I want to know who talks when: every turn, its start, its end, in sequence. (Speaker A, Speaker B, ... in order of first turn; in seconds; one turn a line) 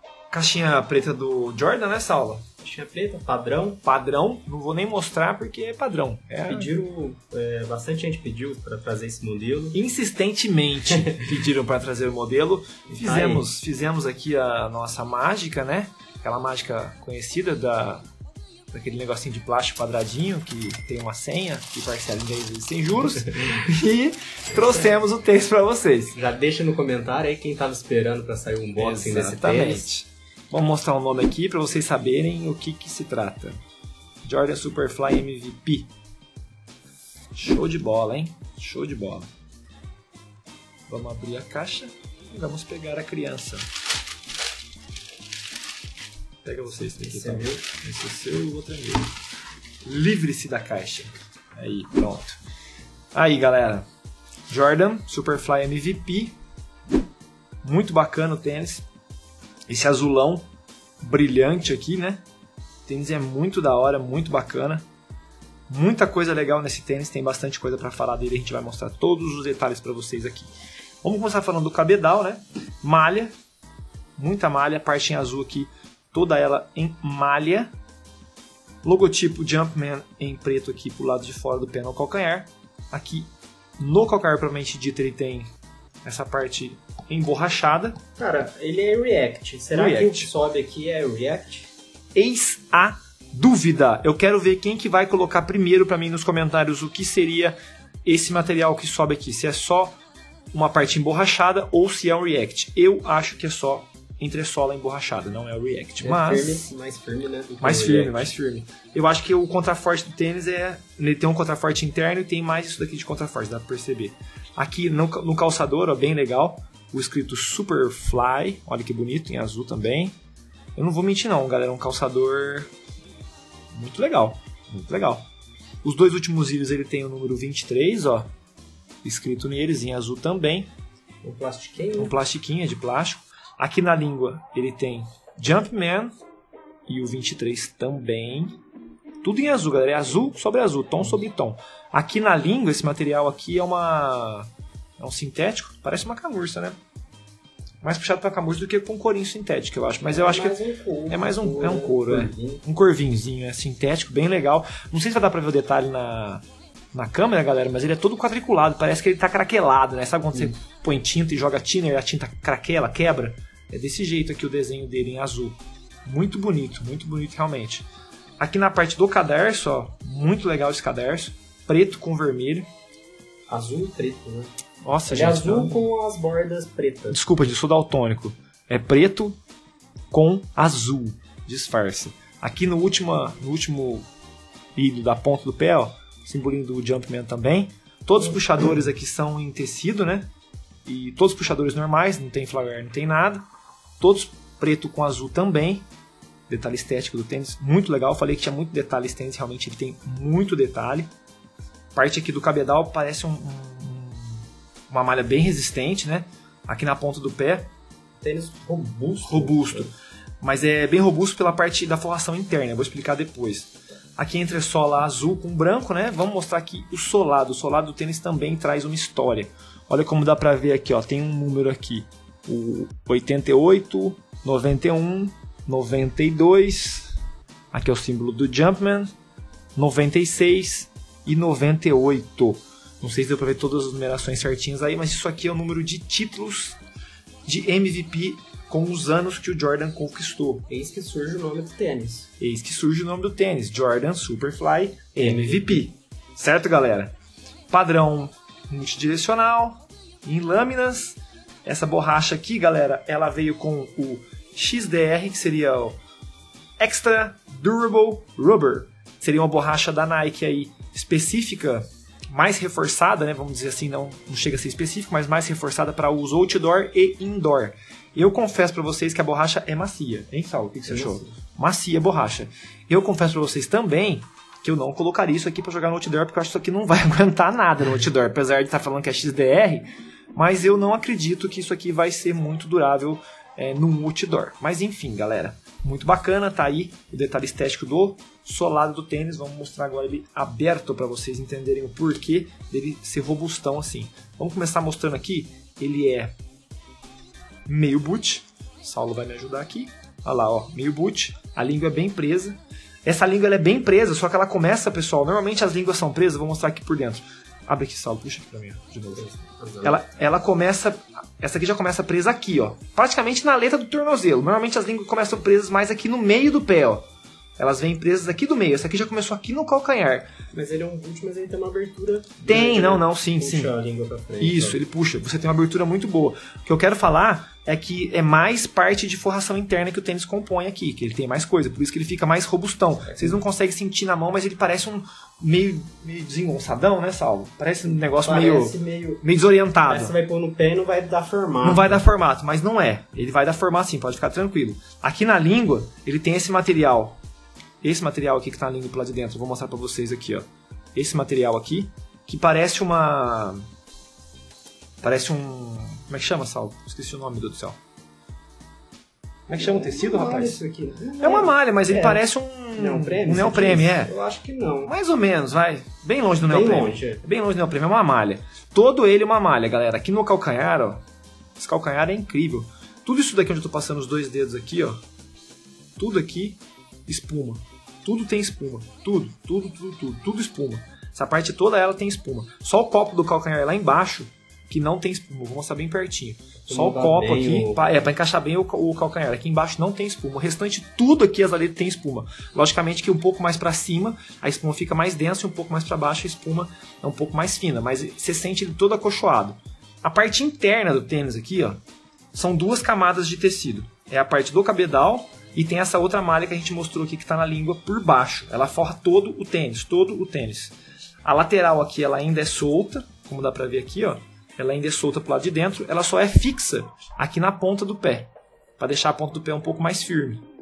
Speaker A: 0.3-2.4
Speaker B: 2.6-3.8
Speaker A: 3.8-6.7
Speaker B: 6.5-9.8
Speaker A: 9.7-18.1
Speaker B: 13.0-13.4
Speaker A: 18.7-26.2
Speaker B: 26.1-29.9
Speaker A: 28.8-33.6
Speaker A: 34.2-35.9
Speaker A: 37.3-39.3
Speaker A: 40.9-43.6
Speaker A: 46.4-49.1
Speaker B: 47.0-47.6
Speaker A: 49.9-52.4
Speaker A: 53.1-53.9
Speaker A: 54.5-56.4
Speaker A: 57.6-58.9
Speaker A: 59.7-60.5
Speaker A: 61.0-62.2
Speaker A: 62.9-64.9
Speaker A: 65.7-70.5
Speaker A: 71.0-73.3
Speaker A: 74.2-77.7
Speaker A: 78.8-85.5
Speaker A: 86.0-88.0
Speaker B: 88.2-91.7
Speaker A: 89.7-90.3
Speaker A: 92.1-100.0
Speaker A: 100.5-106.7
Speaker B: 106.0-108.3
Speaker A: 107.6-120.2
Speaker A: 120.8-122.7
Speaker A: 123.7-125.3
Speaker A: 125.8-128.3
Speaker A: 129.0-130.7
Speaker B: 131.2-132.2
Speaker A: 132.0-136.1
Speaker A: 136.9-138.6
Speaker A: 139.2-146.8
Speaker A: 147.8-150.6
Speaker B: 150.1-152.6
Speaker A: 151.1-167.9
Speaker A: 168.4-172.7
Speaker B: 173.5-174.5
Speaker A: 174.8-175.8
Speaker B: 175.1-177.2
Speaker A: 177.1-179.4
Speaker A: 180.1-184.1
Speaker A: 184.8-190.3
Speaker A: 190.9-193.4
Speaker A: 194.0-195.9
Speaker A: 196.5-201.1
Speaker A: 201.9-207.7
Speaker B: 208.2-209.9
Speaker A: 209.3-227.1
Speaker A: 227.7-229.1
Speaker A: 229.8-236.8
Speaker A: 237.4-240.7
Speaker B: 240.7-242.3
Speaker A: 242.4-247.1
Speaker B: 245.2-245.8
Speaker A: 247.7-256.0
Speaker A: 256.8-296.3
Speaker B: 270.9-271.3
Speaker A: 297.7-309.3
Speaker B: 309.2-310.0
Speaker A: 309.8-317.0
Speaker A: 317.6-320.3
Speaker B: 320.5-324.8
Speaker A: 322.5-323.7
Speaker A: 324.4-340.1
Speaker B: 333.1-333.4
Speaker B: 338.2-339.2
Speaker B: 339.9-342.0
Speaker A: 341.6-347.2
Speaker A: 347.8-353.6
Speaker A: 355.0-357.8
Speaker A: 359.5-360.6
Speaker B: 359.5-362.2
Speaker A: 361.2-364.1
Speaker B: 362.8-364.9
Speaker A: 364.9-371.0
Speaker B: 366.4-367.2
Speaker A: 371.6-375.0
Speaker A: 376.0-401.8
Speaker B: 386.7-387.9
Speaker A: 402.3-420.4